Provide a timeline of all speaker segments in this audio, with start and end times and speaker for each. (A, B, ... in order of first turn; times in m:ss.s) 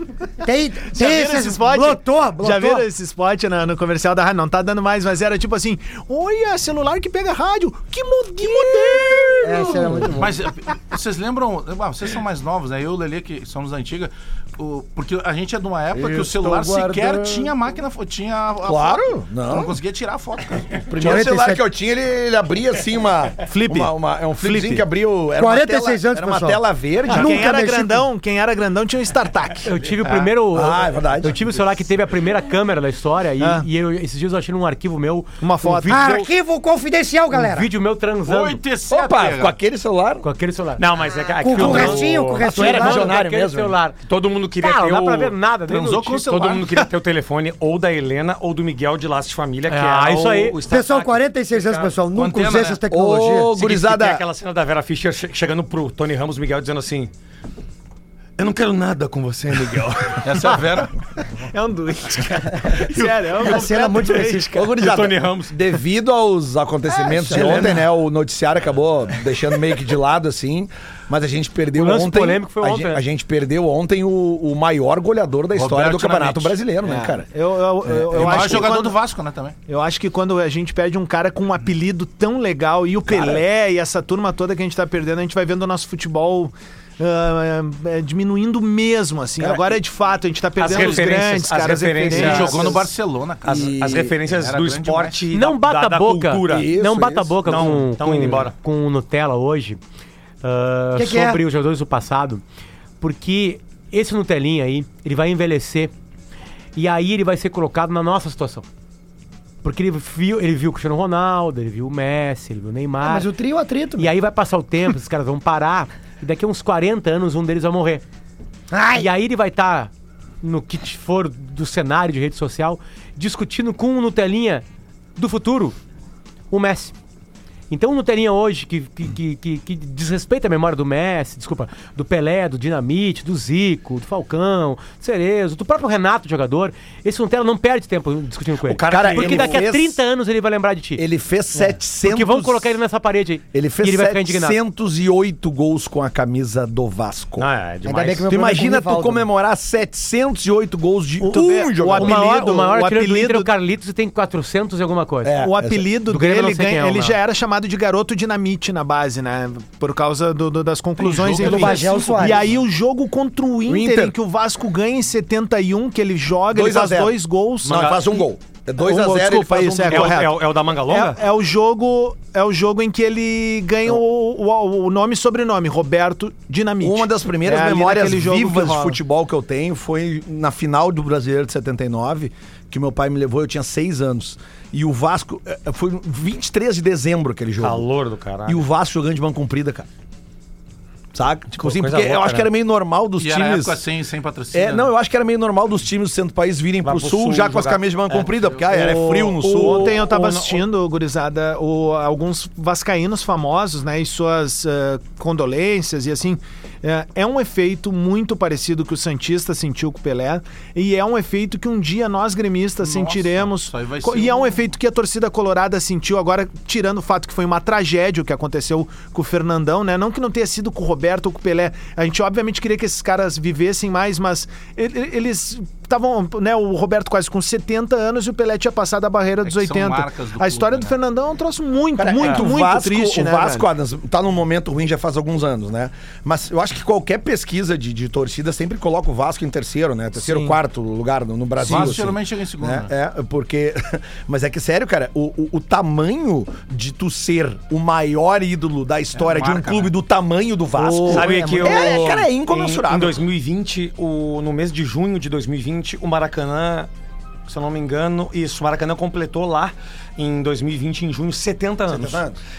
0:00.4-0:02.8 A
0:00.8-0:10.0 B
0:09.4-0:10.4 A
0:10.2-0:20.9 C
0:16.0-0:17.4 D
0:18.6-0:19.8 D
0:20.9-0:27.4 D
0:21.0-0:21.6 A
0:23.4-0:24.8 B
0:25.4-0:28.0 A
0:27.1-0:29.7 B
0:29.6-0:36.3 E
0:30.5-0:31.5 D
0:33.4-0:33.7 B
0:35.4-0:36.2 B
0:35.9-0:37.7 A
0:37.3-0:38.6 E
0:38.3-0:39.6 C
0:38.9-0:40.3 D
0:40.2-0:40.9 E
0:40.8-0:42.5 F
0:41.4-0:43.2 A
0:41.5-0:44.0 E
0:41.6-0:43.8 D
0:44.0-0:45.4 F
0:44.6-0:46.3 E
0:45.7-0:46.9 C
0:46.3-0:52.0 F
0:49.7-0:50.6 E
0:50.7-0:53.6 A
0:52.1-0:52.8 C
0:52.9-0:54.2 D
0:53.6-0:57.1 F
0:58.4-1:00.6 F
1:00.2-1:00.9 C
1:01.2-1:04.6 B
1:03.3-1:04.7 A
1:04.5-1:17.3 D
1:04.7-1:05.6 F
1:07.1-1:07.8 A
1:07.3-1:07.7 F
1:11.7-1:13.0 E
1:15.6-1:16.6 C
1:16.8-1:19.0 B
1:17.8-1:18.7 D
1:18.1-1:19.6 C
1:19.7-1:32.8 B
1:30.6-1:32.9 F
1:30.7-1:31.2 C
1:32.0-1:35.2 C
1:33.4-1:36.7 F
1:33.5-1:34.1 D
1:35.3-1:39.8 E
1:36.5-1:37.7 D
1:37.4-1:38.5 F
1:40.4-1:42.4 E
1:41.0-1:41.4 A
1:43.0-1:45.9 E
1:46.8-1:48.6 E
1:49.6-1:53.3 E
1:53.0-1:54.1 A
1:54.0-1:58.0 E
1:58.7-1:59.1 A
1:58.9-1:59.9 E
2:00.4-2:04.6 E
2:05.2-2:05.8 E
2:06.5-2:06.9 E
2:07.7-2:21.0 E
2:18.7-2:19.6 F
2:18.9-2:20.0 D
2:21.0-2:22.7 D
2:22.0-2:24.6 E
2:23.5-2:27.5 D
2:27.4-2:28.3 F
2:27.8-2:29.3 A
2:28.3-2:32.4 D
2:31.2-2:33.5 B
2:32.0-2:35.4 E
2:35.2-2:35.8 D
2:35.4-2:48.2 B
2:36.1-2:37.2 E
2:41.0-2:42.5 C
2:41.4-2:42.5 A
2:43.7-2:44.2 D
2:46.5-2:50.3 D
2:47.7-2:48.1 F
2:48.8-2:59.0 B
2:49.9-2:51.2 F
2:56.8-3:07.9 D
3:07.6-3:08.6 F
3:08.5-3:09.9 D
3:11.1-3:13.8 D
3:11.6-3:12.5 F
3:13.2-3:14.9 C
3:14.5-3:20.0 D
3:16.8-3:18.6 F
3:18.7-3:53.7 B
3:19.4-3:20.6 F
3:32.8-3:34.7 C
3:49.4-3:51.0 C
3:52.0-4:13.2 D
4:00.2-4:00.6 B
4:01.6-4:02.9 C
4:09.2-4:09.9 C
4:10.8-4:12.2 A
4:11.0-4:16.9 F
4:17.5-4:22.2 F
4:21.9-4:22.4 D